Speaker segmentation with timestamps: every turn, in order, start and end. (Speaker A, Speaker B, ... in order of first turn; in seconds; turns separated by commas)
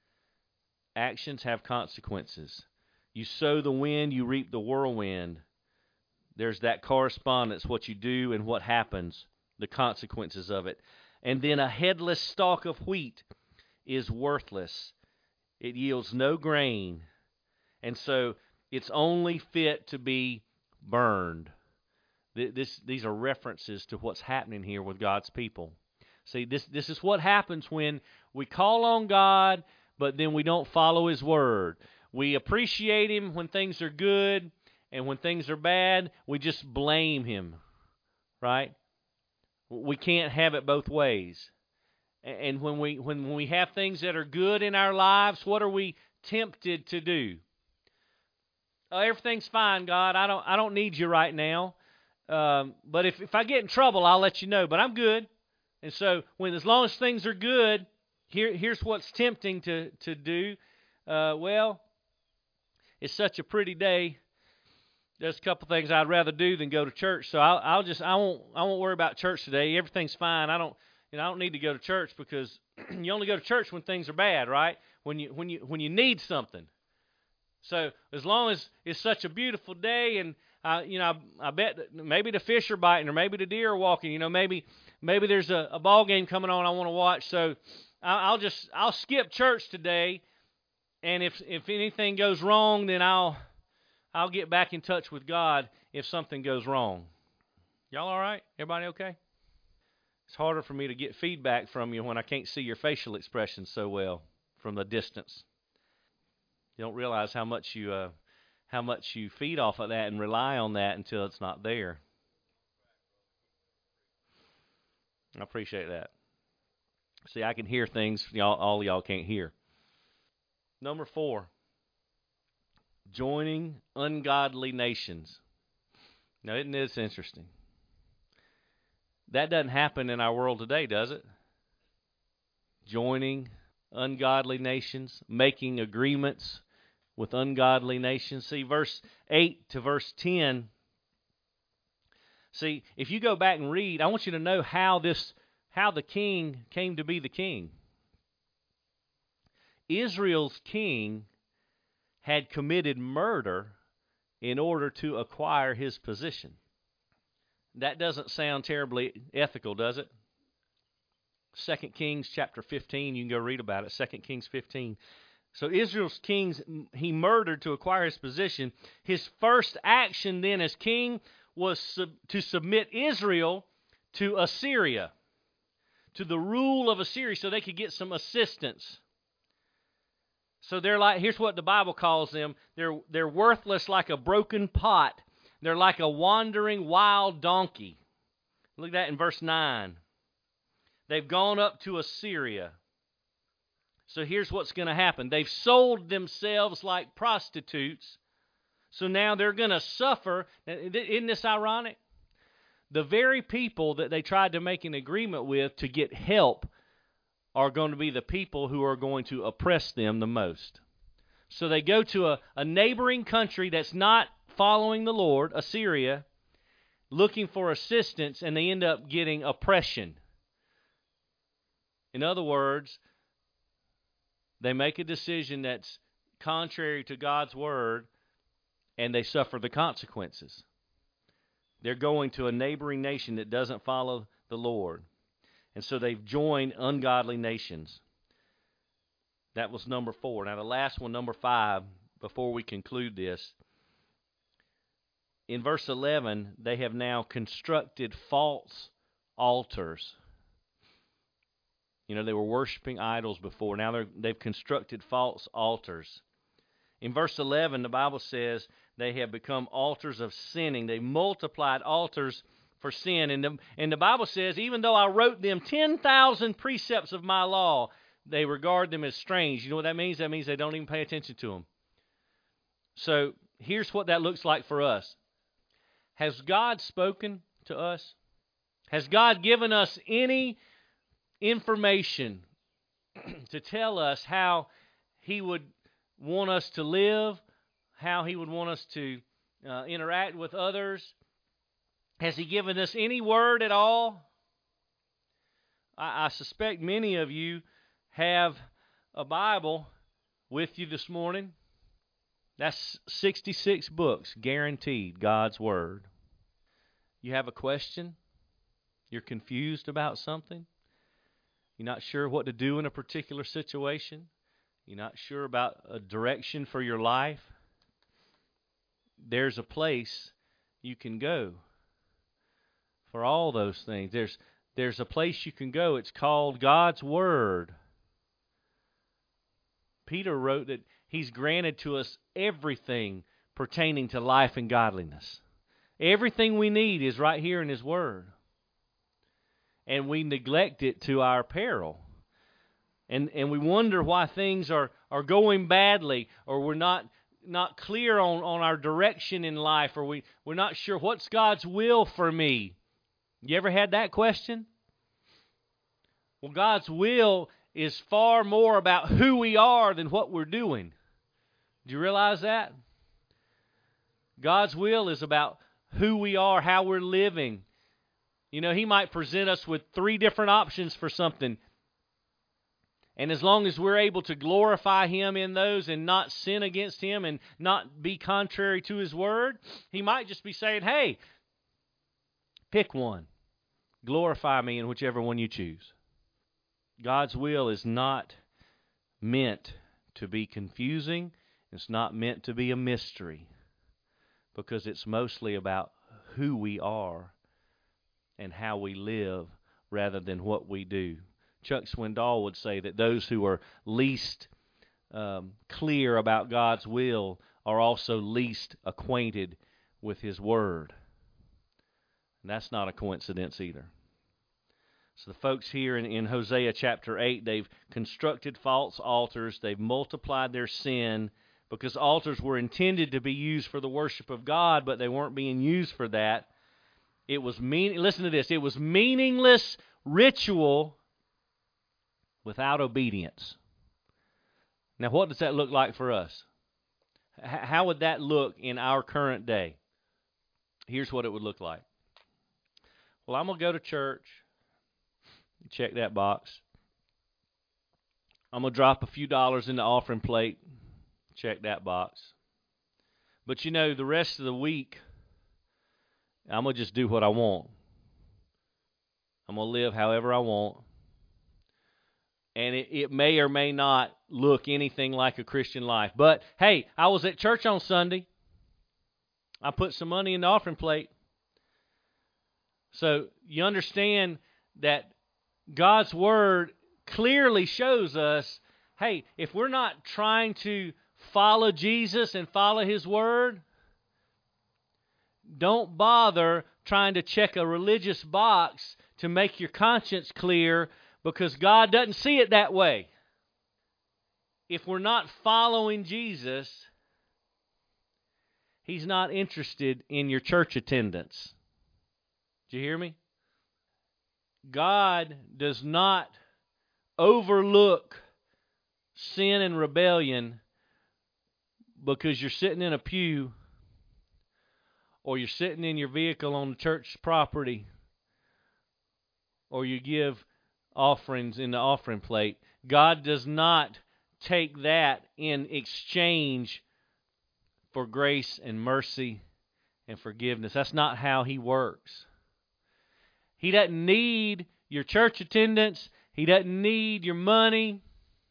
Speaker A: 0.9-5.4, Speaker A: 6.3-13.2, Speaker A: 13.8-14.9, Speaker A: 15.6-17.1, Speaker A: 17.8-21.5, Speaker A: 22.3-37.6, Speaker A: 38.4-38.7, Speaker A: 39.7-41.5, Speaker A: 42.2-47.4, Speaker A: 48.9-51.8, Speaker A: 52.3-55.3, Speaker A: 55.8-61.8, Speaker A: 63.0-64.2, Speaker A: 65.2-76.7, Speaker A: 77.6-90.2, Speaker A: 91.0-93.4, Speaker A: 94.1-97.1, Speaker A: 97.9-99.2, Speaker A: 100.3-105.5, Speaker A: 106.8-108.1, Speaker A: 108.7-112.0, Speaker A: 115.4-116.1, Speaker A: 117.2-119.5, Speaker A: 120.8-121.5, Speaker A: 123.1-125.4, Speaker A: 126.4-127.5, Speaker A: 129.3-131.2, Speaker A: 132.8-136.6, Speaker A: 137.2-140.7, Speaker A: 142.5-147.7, Speaker A: 149.9-151.3, Speaker A: 152.2-153.8, Speaker A: 154.4-156.6, Speaker A: 157.7-160.1, Speaker A: 161.5-165.0, Speaker A: 165.5-175.1, Speaker A: 176.1-179.0, Speaker A: 180.6-188.0, Speaker A: 188.8-190.0, Speaker A: 191.1-192.8, Speaker A: 194.1-198.2, Speaker A: 198.9-202.0, Speaker A: 202.9-206.7, Speaker A: 207.5-210.8, Speaker A: 211.5-216.2, Speaker A: 217.1-220.2, Speaker A: 222.1-223.0, Speaker A: 224.6-228.1, Speaker A: 229.0-230.6, Speaker A: 231.8-235.0, Speaker A: 235.7-238.0, Speaker A: 239.5-243.6, Speaker A: 245.5-250.2, Speaker A: 252.1-256.2, Speaker A: 257.0-271.7, Speaker A: 272.9-275.2, Speaker A: 276.1-278.2, Speaker A: 278.9-280.6, Speaker A: 281.4-282.4, Speaker A: 283.2-287.4, Speaker A: 287.9-291.1, Speaker A: 292.2-294.3, Speaker A: 296.0-299.9, Speaker A: 300.5-301.5, Speaker A: 302.6-306.1, Speaker A: 307.2-308.2, Speaker A: 309.1-310.7, Speaker A: 311.8-314.3, Speaker A: 314.9-317.5, Speaker A: 319.2-321.6, Speaker A: 323.0-327.7, Speaker A: 330.1-335.4, Speaker A: 336.0-338.3, Speaker A: 339.9-342.0, Speaker A: 343.1-352.8, Speaker A: 353.4-354.7, Speaker A: 356.4-360.9, Speaker A: 361.8-362.7, Speaker A: 364.4-367.6, Speaker A: 368.5-371.6, Speaker A: 373.2-381.2, Speaker A: 382.7-383.3, Speaker A: 384.0-385.9, Speaker A: 387.0-388.4, Speaker A: 389.2-393.5, Speaker A: 394.5-397.3, Speaker A: 398.4-404.5, Speaker A: 405.1-410.9, Speaker A: 412.4-413.9, Speaker A: 415.1-426.5, Speaker A: 427.3-431.0, Speaker A: 432.4-433.6, Speaker A: 435.0-436.5, Speaker A: 437.4-439.8, Speaker A: 440.9-441.8, Speaker A: 443.2-444.4, Speaker A: 445.7-446.6, Speaker A: 448.5-450.6, Speaker A: 451.3-452.3, Speaker A: 453.4-455.0, Speaker A: 456.5-457.7, Speaker A: 459.5-460.8, Speaker A: 462.5-468.3, Speaker A: 469.6-471.1, Speaker A: 472.9-475.1, Speaker A: 475.7-483.6, Speaker A: 485.4-493.1, Speaker A: 494.7-496.9, Speaker A: 498.8-501.5, Speaker A: 502.7-503.2, Speaker A: 504.7-506.3, Speaker A: 507.2-508.2, Speaker A: 509.1-510.6, Speaker A: 512.0-513.5, Speaker A: 515.2-517.9, Speaker A: 519.7-526.8, Speaker A: 527.9-529.4, Speaker A: 530.1-532.2, Speaker A: 533.6-538.0